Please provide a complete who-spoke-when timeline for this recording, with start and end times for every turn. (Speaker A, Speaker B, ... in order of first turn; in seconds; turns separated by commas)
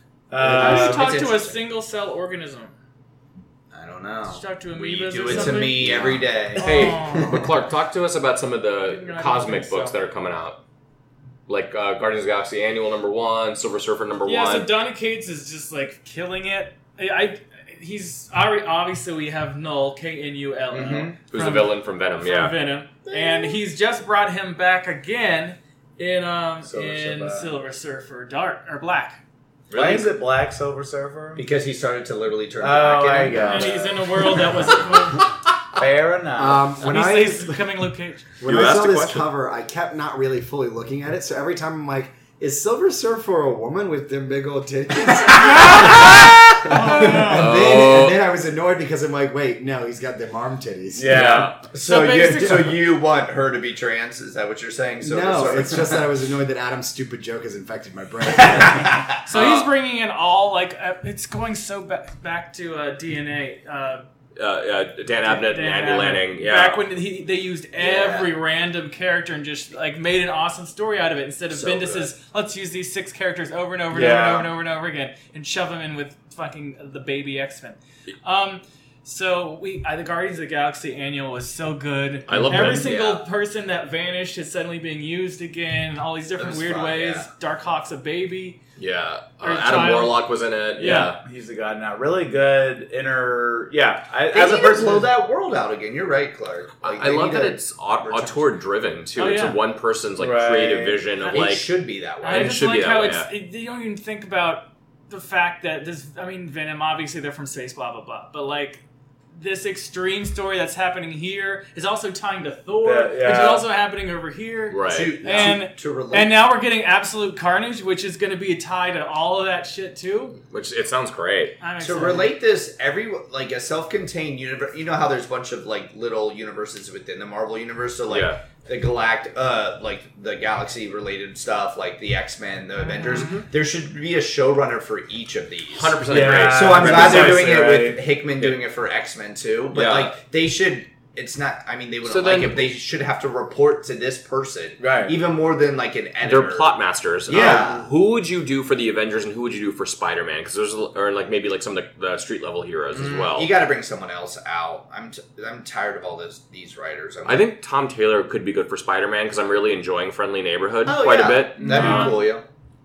Speaker A: 0.3-1.2, Speaker B: 0.4-1.6, Speaker C: 0.6-2.7, Speaker B: 3.7-7.3, Speaker C: 4.3-6.0, Speaker D: 5.8-6.5, Speaker E: 6.0-10.6, Speaker C: 6.5-7.4, Speaker C: 8.9-10.0, Speaker E: 11.5-14.7, Speaker C: 14.2-29.2, Speaker A: 20.7-21.2, Speaker E: 21.3-22.6, Speaker A: 26.6-27.5, Speaker B: 29.7-30.1, Speaker A: 29.7-31.4, Speaker B: 31.4-34.8, Speaker A: 32.6-33.8, Speaker C: 33.3-35.3, Speaker A: 35.8-37.0, Speaker D: 36.4-37.4, Speaker C: 36.8-38.3, Speaker D: 38.4-51.5, Speaker E: 38.4-39.3, Speaker C: 45.4-47.5, Speaker E: 45.9-46.7, Speaker E: 47.3-48.2, Speaker A: 51.0-51.6, Speaker E: 51.1-51.6, Speaker B: 51.6-56.0, Speaker C: 51.7-52.8, Speaker D: 55.0-59.0, Speaker B: 58.5-59.1, Speaker C: 59.2-64.0, Speaker E: 59.3-59.7, Speaker E: 64.4-66.8, Speaker C: 65.3-88.6, Speaker B: 67.8-68.3, Speaker B: 71.5-72.1, Speaker A: 73.9-74.5, Speaker E: 82.3-82.9, Speaker A: 82.3-82.9, Speaker B: 82.8-83.2, Speaker B: 86.4-87.3, Speaker E: 88.8-91.2, Speaker C: 89.4-90.2, Speaker C: 90.8-91.1, Speaker A: 91.2-95.1, Speaker B: 94.3-98.4, Speaker E: 96.8-101.7, Speaker C: 99.2-99.6, Speaker A: 100.2-101.0, Speaker B: 101.2-102.6, Speaker C: 102.2-108.8, Speaker E: 102.3-103.3, Speaker C: 109.3-120.4, Speaker A: 112.8-113.7, Speaker E: 114.7-115.1, Speaker B: 114.9-116.3, Speaker D: 115.2-115.6, Speaker E: 120.5-121.6, Speaker C: 121.6-122.3, Speaker B: 121.8-146.7, Speaker E: 128.1-128.4, Speaker C: 132.9-133.4, Speaker E: 133.1-133.4, Speaker E: 135.7-137.6, Speaker A: 136.1-138.0, Speaker E: 139.7-140.1, Speaker E: 142.0-142.7, Speaker A: 144.8-145.2, Speaker E: 146.2-153.5, Speaker B: 147.3-147.8, Speaker A: 147.3-147.8, Speaker B: 152.9-157.5, Speaker E: 157.2-162.1, Speaker B: 160.8-162.4, Speaker A: 161.6-162.2, Speaker C: 161.7-162.2